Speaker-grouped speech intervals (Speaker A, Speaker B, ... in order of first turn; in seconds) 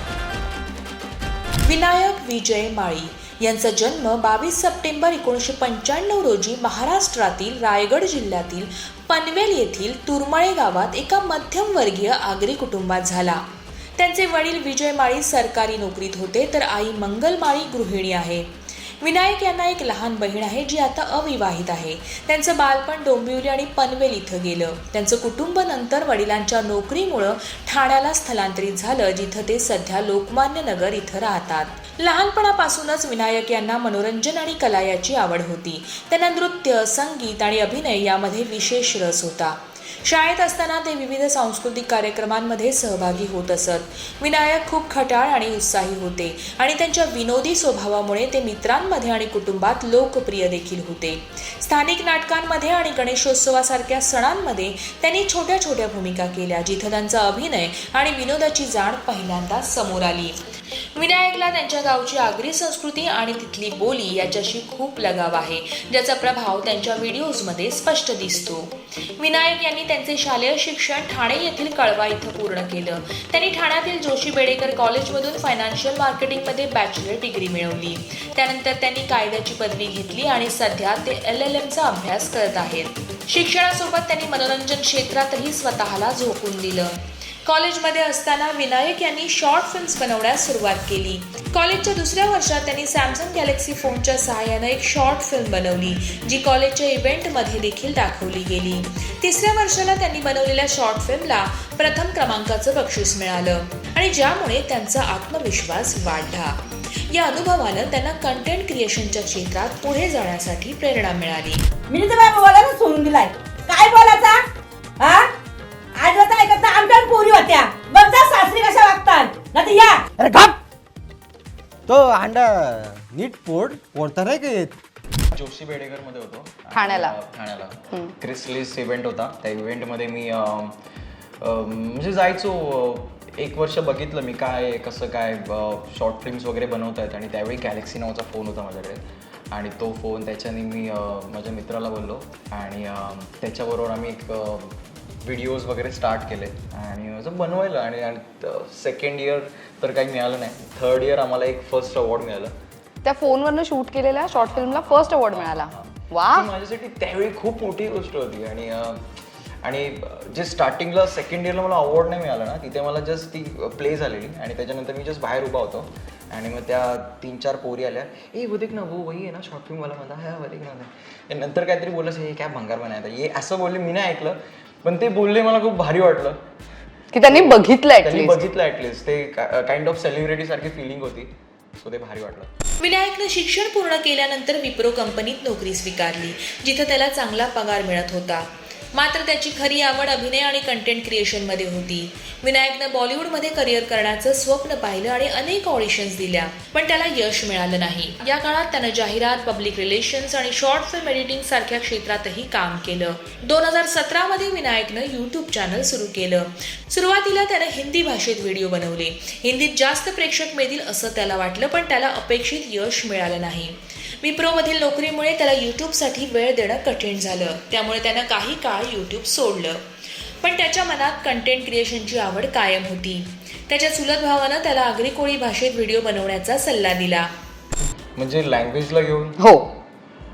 Speaker A: 1.6-13.4, 14.0-60.4, 60.9-111.6, 182.8-219.8, 220.4-227.3
Speaker B: 111.9-114.5, 115.0-115.3, 115.9-120.0
Speaker C: 120.2-120.5, 121.9-124.7
Speaker D: 125.3-130.8, 131.4-152.5, 154.3-159.0, 159.6-176.4, 177.2-182.5, 228.2-229.5
Speaker E: 126.7-127.1, 153.0-156.5, 177.1-178.4, 229.4-229.8